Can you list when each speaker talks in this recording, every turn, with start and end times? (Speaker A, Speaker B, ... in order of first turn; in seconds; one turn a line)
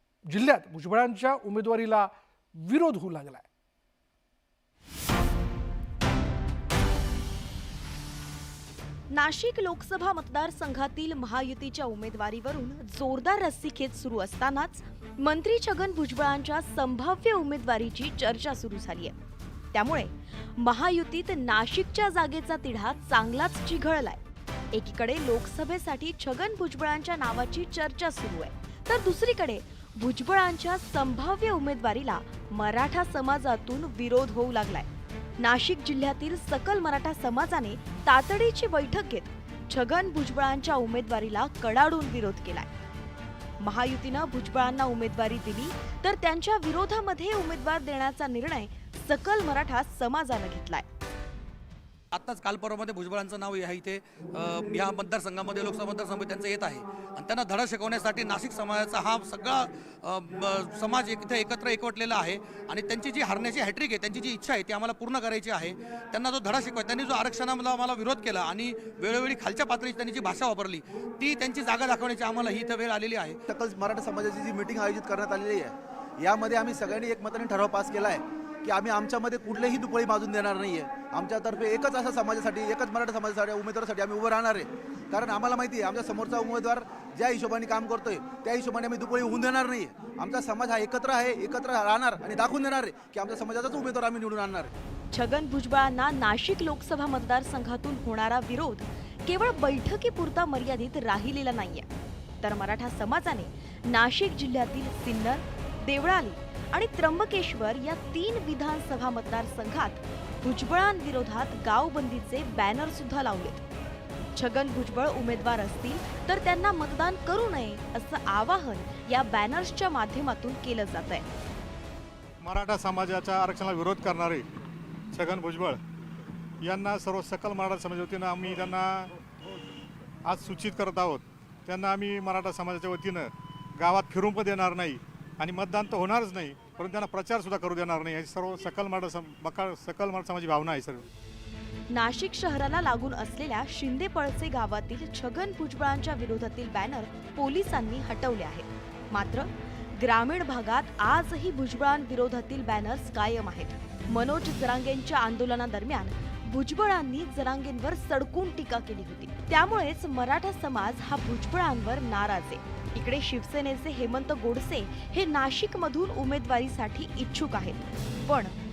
Speaker A: 0.3-3.5
Speaker B: 9.1-19.1
Speaker B: 19.7-24.2
Speaker B: 24.7-34.9
Speaker B: 35.4-42.7
Speaker B: 43.6-50.9
Speaker C: 52.1-73.4
Speaker D: 73.5-75.7
Speaker D: 76.3-78.2
Speaker D: 78.7-84.6
Speaker D: 85.1-94.7
Speaker B: 95.1-101.9
Speaker B: 102.4-113.6
Speaker B: 114.3-121.3
Speaker E: 122.4-124.4
Speaker E: 125.1-125.8
Speaker E: 126.6-129.1
Speaker E: 130.2-141.0
Speaker B: 141.9-168.6